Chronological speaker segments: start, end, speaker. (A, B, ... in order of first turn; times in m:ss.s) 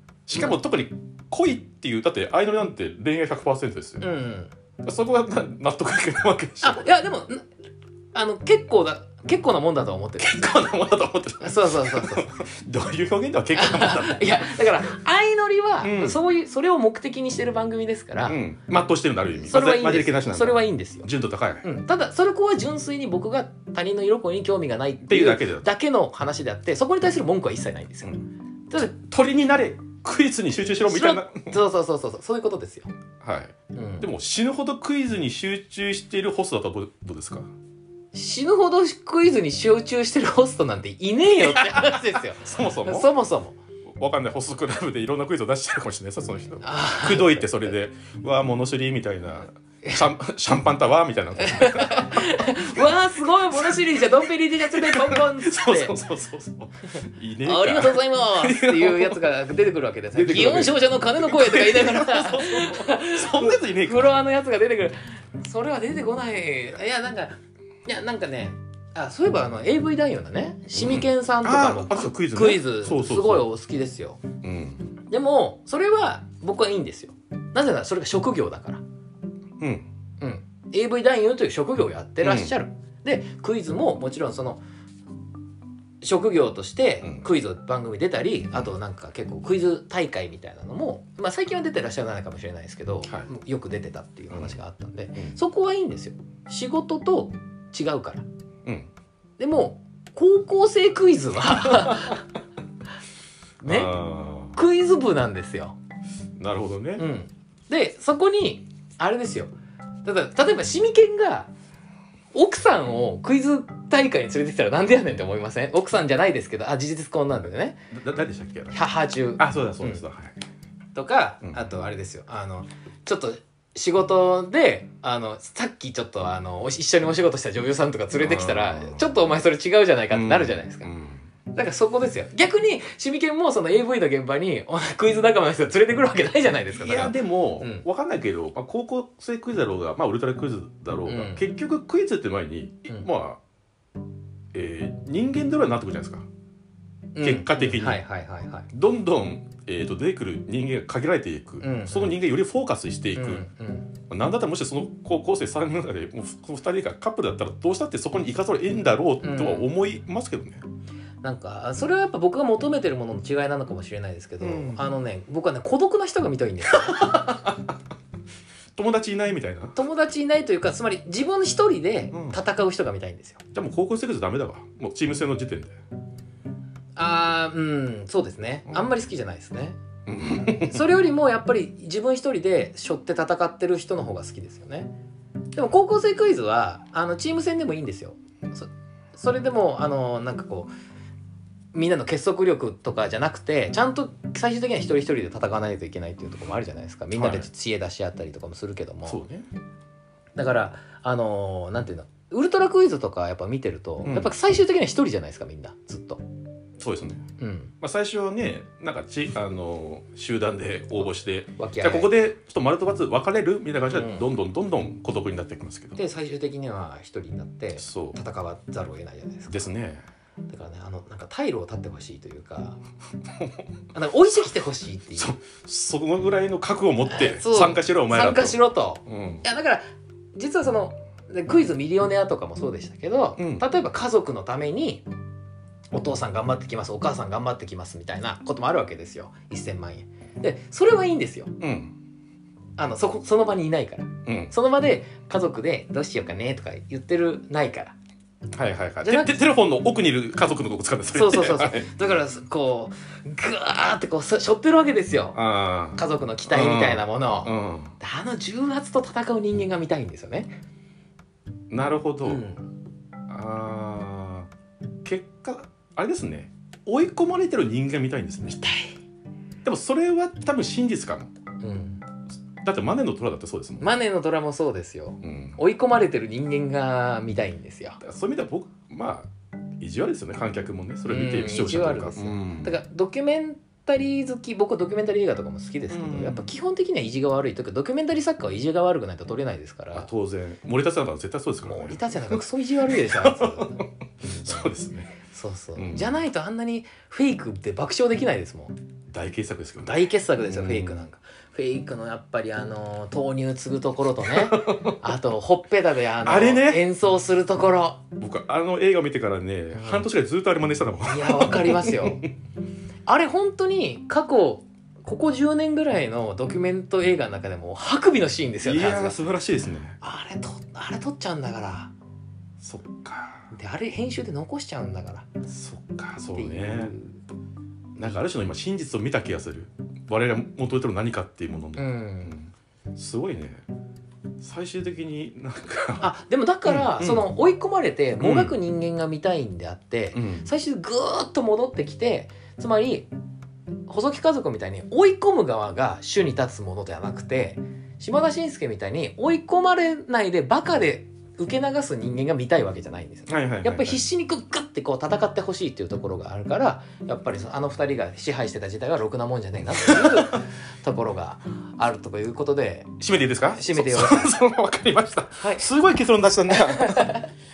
0:00.3-0:04.0 A
0:00.3-0:00.6 B
0:04.0-0:04.5 B
0:04.8-0:06.9 A
0:06.6-0:07.4 B
0:08.1-0:10.5 B
0:10.2-0:14.4 A
0:11.4-0:12.3 B
0:13.5-0:18.4 B
0:15.8-0:16.2 A
0:18.3-0:21.6 A
0:19.4-0:21.1 B
0:21.6-0:28.9 B
0:25.0-0:25.7 A
0:28.7-0:31.6 A
0:30.8-0:32.9 B
0:33.2-0:37.5 A
0:33.7-0:34.1 B
0:38.1-0:43.6 B
0:41.4-0:43.1 A
0:44.0-0:52.8 A
0:46.6-0:47.7 B
0:51.4-0:56.0 B
0:53.5-0:53.9 A
0:54.7-0:59.2 A
0:57.4-1:14.2 B
1:00.1-1:04.2 A
1:10.7-1:13.4 A
1:14.4-1:14.9 A
1:15.1-1:18.8 B
1:19.6-1:19.9 A
1:20.2-1:24.6 B
1:22.2-1:22.5 A
1:26.0-1:38.2 B
1:34.3-1:34.6 A
1:39.4-1:42.2 B
1:41.6-1:42.2 A
1:43.6-1:44.0 B
1:43.6-1:44.6 A
1:44.5-1:45.8 B
1:46.4-1:47.0 A
1:47.0-1:49.5 B
1:50.0-1:51.5 B
1:52.3-1:57.8 B
1:57.9-1:58.8 A
1:58.7-2:00.0 B
1:59.4-2:00.4 A
2:00.9-2:10.9 B
2:08.1-2:09.1 A
2:10.1-2:11.2 A
2:11.5-2:17.8 B
2:16.7-2:23.4 A
2:21.1-2:21.4 B
2:24.5-2:26.3 A
2:27.1-2:28.7 B
2:27.2-2:28.0 A
2:28.7-2:33.4 A
2:31.6-2:32.1 B
2:33.1-2:33.9 B
2:34.1-2:40.6 A
2:39.2-2:39.7 B
2:41.2-2:47.2 B
2:44.4-2:44.8 A
2:46.7-2:47.7 A
2:48.8-2:49.8 A
2:49.7-2:53.4 B
2:52.1-2:52.4 A
2:53.5-2:55.8 A
2:57.0-3:04.9 B
3:00.0-3:00.8 A
3:05.5-3:10.7 B
3:11.7-3:19.2 B
3:17.1-3:17.5 A
3:19.1-3:19.5 A
3:20.4-3:26.2 B
3:24.0-3:24.3 A
3:26.8-3:27.2 A
3:27.4-3:27.7 B
3:27.8-3:36.0 A
3:31.6-3:32.1 B
3:33.9-3:34.2 B
3:36.0-3:39.7 B
3:37.8-3:38.2 A
3:39.5-3:40.0 A
3:40.5-3:42.8 B
3:43.9-3:45.3 B
3:45.2-3:49.4 A
3:47.0-3:55.0 B
3:53.4-3:53.6 A
3:55.9-4:01.5 B
4:01.6-4:01.9 A
4:02.8-4:07.9 B
4:04.2-4:04.5 A
4:08.5-4:11.9 A
4:09.0-4:09.4 B
4:11.1-4:15.4 B
4:15.3-4:17.9 A
4:15.9-4:20.5 B
4:21.7-4:22.4 A
4:22.2-4:22.7 B
4:23.3-4:24.5 A
4:25.0-4:28.6 A
4:28.6-4:28.9 B
4:29.6-4:31.3 A
4:31.6-4:32.0 B
4:32.6-4:33.8 A
4:33.8-4:38.0 B
4:35.2-4:35.6 A
4:38.0-4:42.8 A
4:41.1-4:50.1 B
4:45.9-4:46.5 A
4:49.9-4:55.1 A
4:51.6-4:54.7 B
4:55.3-4:58.8 B
4:55.8-4:56.1 A
4:59.1-5:01.0 A
4:59.8-5:08.0 B
5:04.3-5:05.0 A
5:06.2-5:06.8 A
5:08.2-5:12.2 A
5:09.8-5:10.0 B
5:11.0-5:12.3 B
5:13.0-5:19.2 B
5:18.6-5:20.0 A
5:20.0-5:21.9 B
5:22.6-5:23.5 A
5:23.5-5:25.3 B
5:25.5-5:26.9 A
5:26.3-5:27.2 B
5:28.0-5:33.6 A
5:31.8-5:32.4 B
5:34.4-5:36.1 A
5:36.0-5:43.1 B
5:36.6-5:37.2 A
5:38.2-5:38.5 A
5:40.1-5:40.5 A
5:43.9-6:04.3 B
5:53.3-5:54.0 A
5:59.7-6:00.4 A
6:03.0-6:07.2 A
6:05.4-6:05.6 B
6:06.5-6:07.3 B